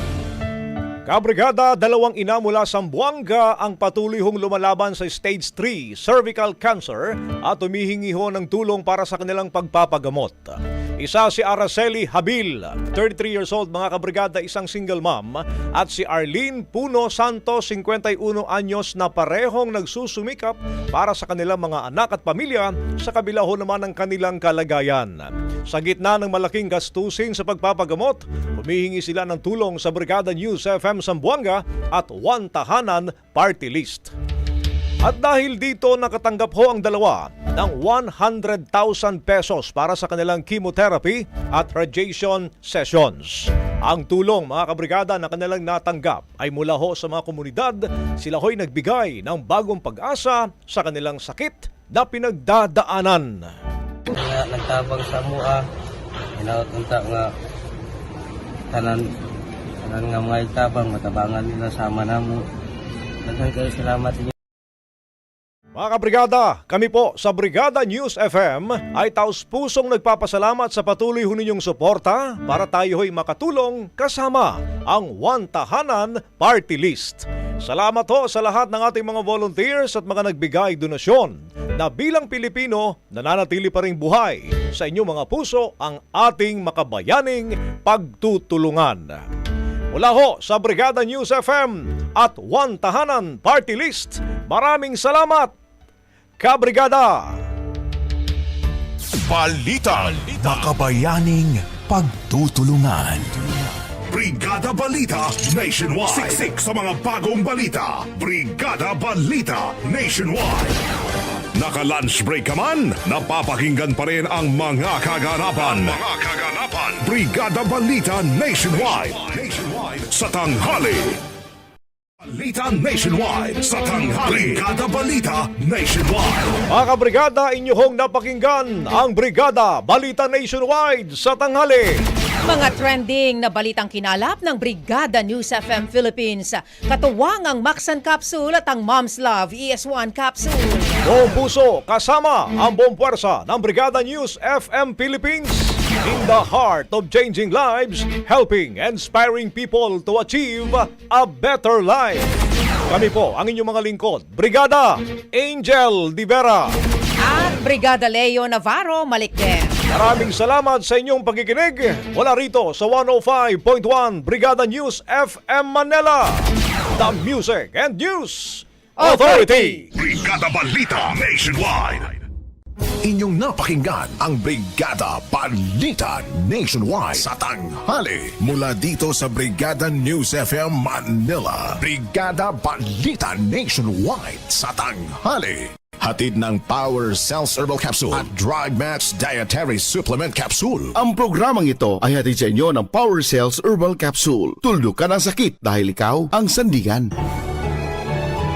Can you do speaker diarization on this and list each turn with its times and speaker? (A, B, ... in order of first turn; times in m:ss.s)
0:01.1-0:34.1 A
0:35.0-0:53.4 A
0:54.1-0:55.6 B
0:56.4-0:57.2 B
0:58.7-0:59.0 B
0:59.8-1:02.4 B
1:03.2-1:04.3 B
1:05.8-1:29.2 A
1:29.9-1:35.5 A
1:36.4-1:37.3 A
1:39.3-1:43.3 C
1:44.1-1:50.8 D
1:46.1-1:46.5 C
1:51.6-2:01.2 D
2:02.2-2:06.6 D
2:04.3-2:04.6 A
2:06.7-2:12.0 A
2:12.4-2:21.0 E
2:21.1-2:32.3 A
2:32.9-2:36.7 A
2:37.2-2:39.8 E
2:39.9-2:46.5 A
2:47.0-2:49.8 A
2:49.0-2:49.8 E
2:49.9-2:52.2 D
2:53.0-3:11.0 C
3:11.0-3:17.1 F